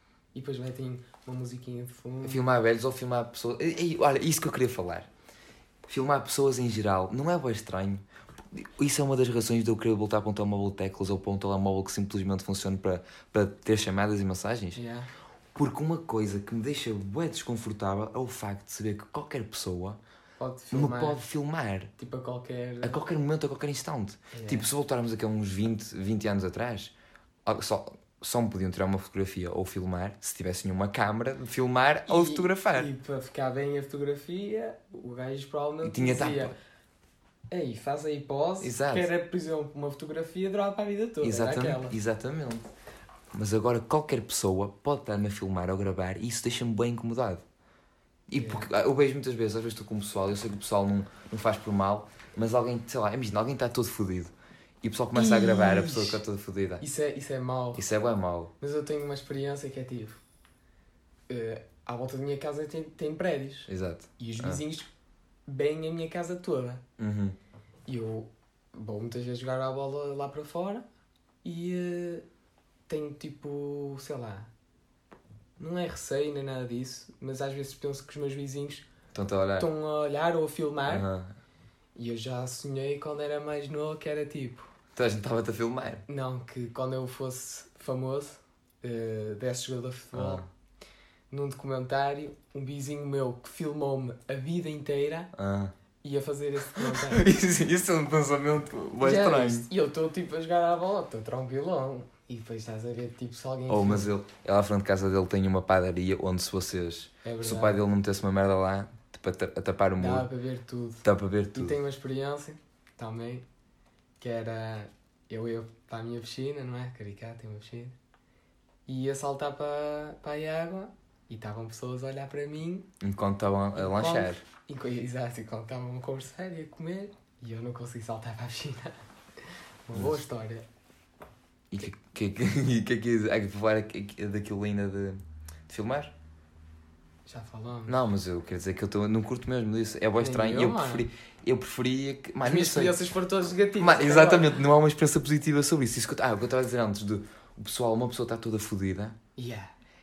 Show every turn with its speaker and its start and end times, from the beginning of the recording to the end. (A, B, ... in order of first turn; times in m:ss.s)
0:00.3-0:02.5 A
0:02.2-0:05.1 B
0:05.8-0:14.8 B
0:14.8-0:15.1 A
0:15.5-0:20.0 B
0:20.4-0:21.2 A
0:20.7-0:21.9 B
0:22.0-0:23.0 A
0:22.8-0:26.9 B
0:24.3-0:24.6 A
0:27.4-0:32.9 B
0:32.1-0:36.6 A
0:35.8-0:36.5 B
0:37.5-0:42.0 A
0:38.6-0:39.1 B
0:41.2-0:42.6 B
0:43.3-0:47.4 B
0:48.3-0:56.8 B
0:48.4-0:48.7 A
0:55.1-0:56.2 A
0:56.8-0:57.8 A
0:57.8-0:58.5 B
0:58.6-1:00.2 A
1:01.3-1:04.9 A
1:03.7-1:04.6 B
1:05.5-1:06.8 A
1:07.0-1:07.4 B
1:07.9-1:10.8 A
1:11.4-1:12.2 A
1:12.9-1:14.5 A
1:15.6-1:18.9 A
1:19.1-1:19.7 B
1:19.6-1:21.1 A
1:20.9-1:21.3 B
1:22.0-1:24.7 A
1:24.9-1:26.0 B
1:26.1-1:30.4 A
1:30.1-1:30.4 B
1:31.3-1:35.3 A
1:35.3-1:35.7 B
1:36.0-1:37.3 A
1:36.8-1:39.7 B
1:39.0-1:44.1 A
1:43.7-1:50.2 B
1:47.2-1:47.8 A
1:50.0-1:53.4 A
1:51.0-1:51.8 B
1:54.2-1:57.9 A
1:58.9-2:02.9 A
2:03.0-2:04.4 B
2:03.8-2:09.0 A
2:09.9-2:10.6 A
2:09.9-2:10.2 B
2:11.7-2:16.1 B
2:17.2-2:18.0 A
2:17.9-2:23.0 B
2:20.2-2:21.1 A
2:22.4-2:24.6 A
2:23.8-2:29.2 B
2:29.4-2:29.7 A